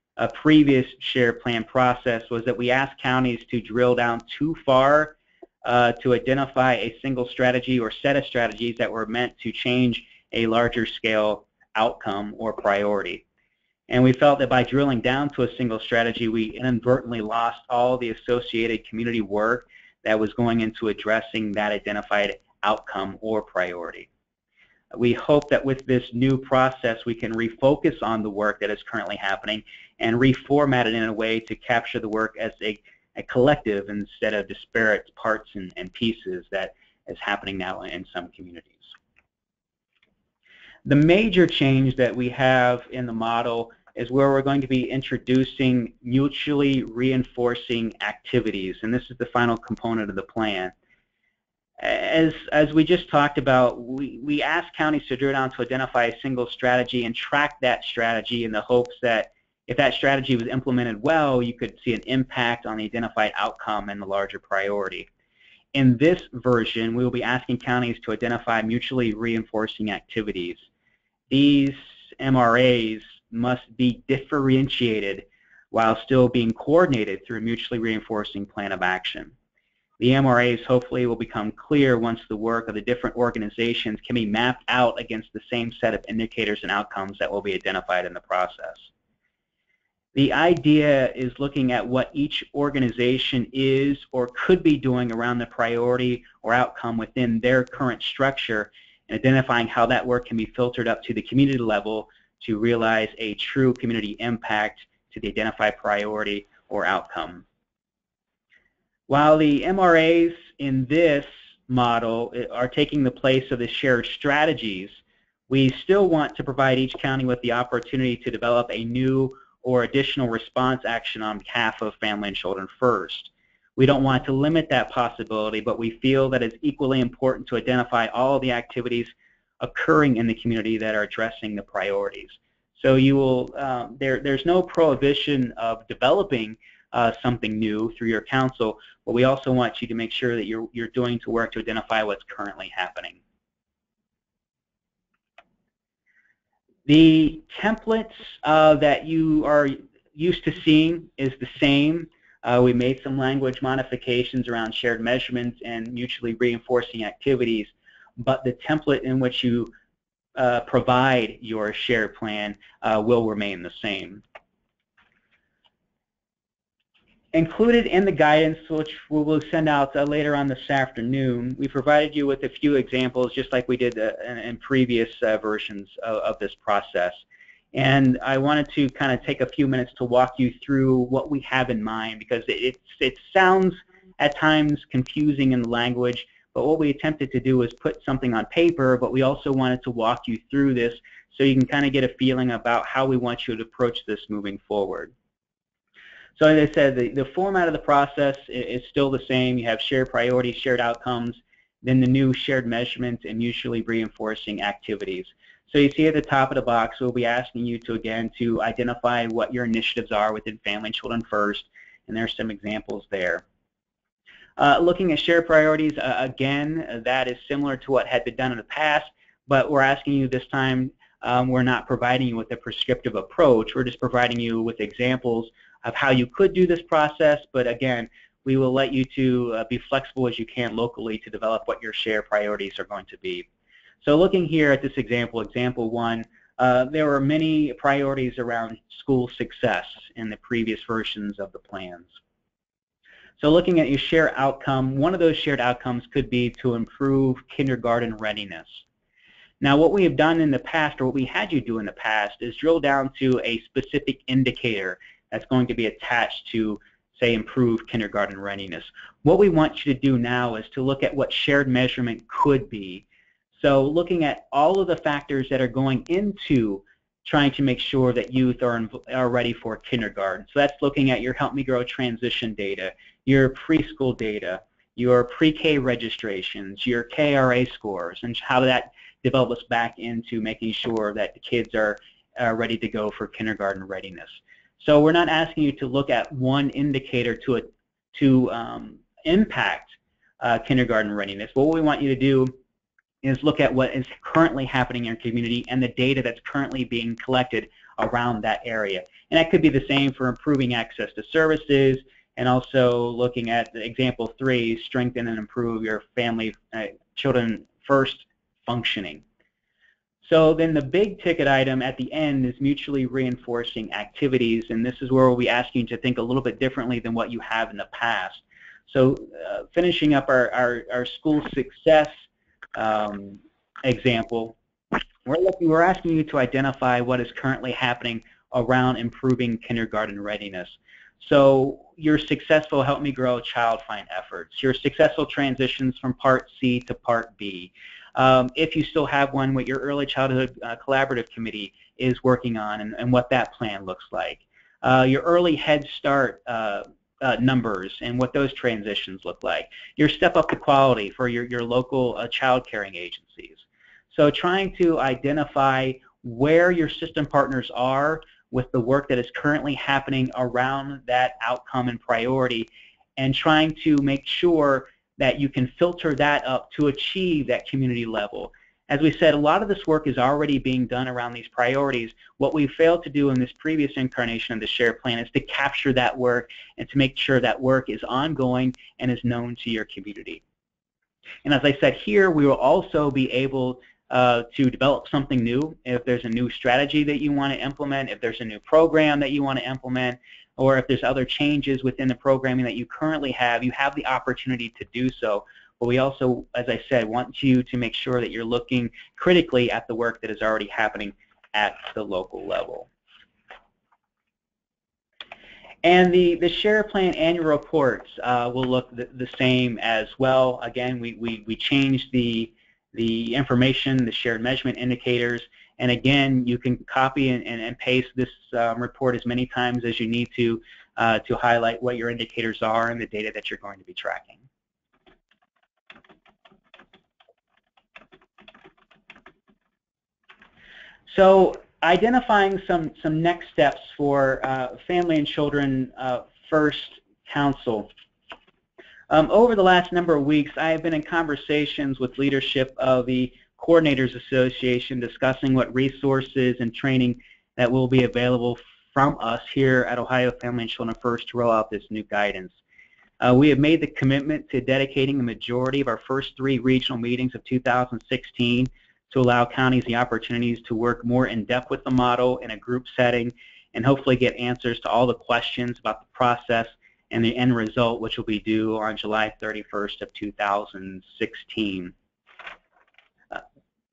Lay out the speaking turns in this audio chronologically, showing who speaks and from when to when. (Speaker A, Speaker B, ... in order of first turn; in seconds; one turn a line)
Speaker A: 0.2-13.2
Speaker A: 13.9-24.1
Speaker A: 24.9-38.9
Speaker A: 40.8-50.7
Speaker A: 51.8-65.1
Speaker A: 65.7-70.7
Speaker A: 71.3-79.3
Speaker A: 80.0-88.9
Speaker A: 90.1-107.4
Speaker A: 109.1-143.2
Speaker A: 146.8-159.7
Speaker A: 160.3-164.2
Speaker A: 167.3-195.1
Speaker A: 196.4-213.4
Speaker A: 214.6-233.4
Speaker A: 234.0-242.1
Speaker A: 243.4-248.8
Speaker A: 249.6-292.6
Speaker A: 293.2-309.2
Speaker A: 310.2-324.6
Speaker A: 325.2-380.4
Speaker A: 381.4-402.9
Speaker A: 405.8-424.4
Speaker A: 431.1-437.9
Speaker A: 439.1-452.6
Speaker A: 453.2-471.9